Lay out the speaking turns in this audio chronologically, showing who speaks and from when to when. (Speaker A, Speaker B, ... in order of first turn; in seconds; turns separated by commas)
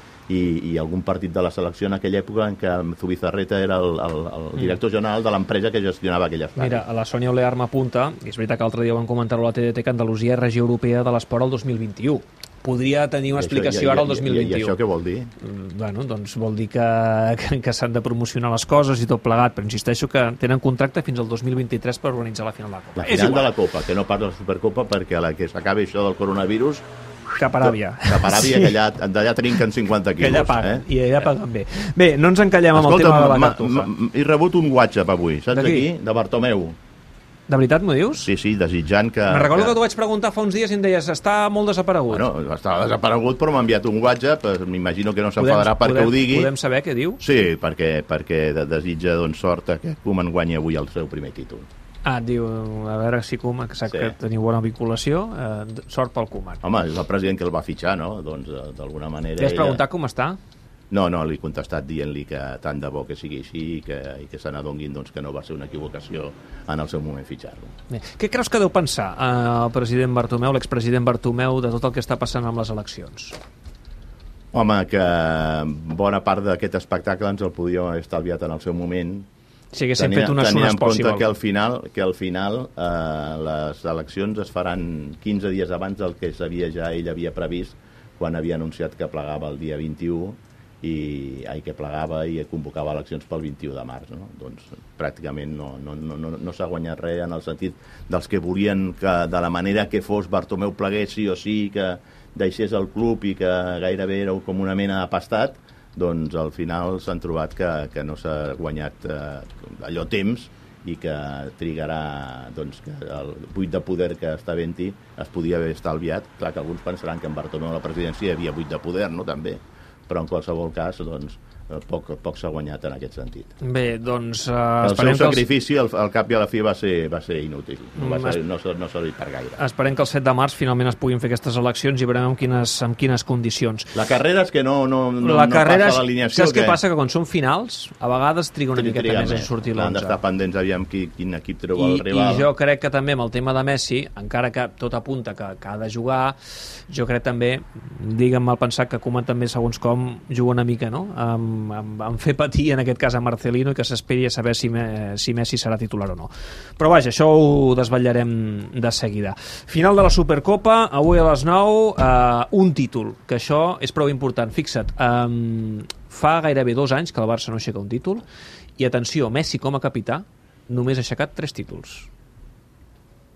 Speaker A: 0.3-6.8, Speaker B: 6.6-14.8, Speaker A: 13.3-15.3, Speaker B: 15.4-23.5, Speaker A: 22.9-26.8, Speaker B: 27.4-28.8, Speaker A: 27.4-31.3, Speaker B: 30.2-33.9, Speaker A: 32.7-36.8, Speaker B: 35.5-35.9, Speaker B: 37.5-38.3, Speaker A: 38.2-39.8, Speaker B: 39.3-42.3, Speaker A: 42.1-46.5, Speaker B: 45.4-47.2, Speaker A: 47.2-51.7, Speaker B: 52.0-56.6, Speaker A: 53.9-54.1, Speaker A: 56.6-59.8, Speaker B: 59.4-60.4, Speaker A: 60.9-67.7, Speaker B: 67.9-73.4, Speaker A: 74.5-79.3, Speaker B: 79.7-81.3, Speaker A: 80.0-123.5, Speaker B: 123.6-125.5, Speaker A: 124.8-129.6, Speaker B: 128.0-128.4, Speaker B: 129.6-133.9, Speaker A: 133.9-136.8, Speaker B: 135.2-140.2, Speaker A: 138.7-142.5, Speaker B: 141.7-146.3, Speaker B: 146.9-168.2, Speaker B: 168.8-172.1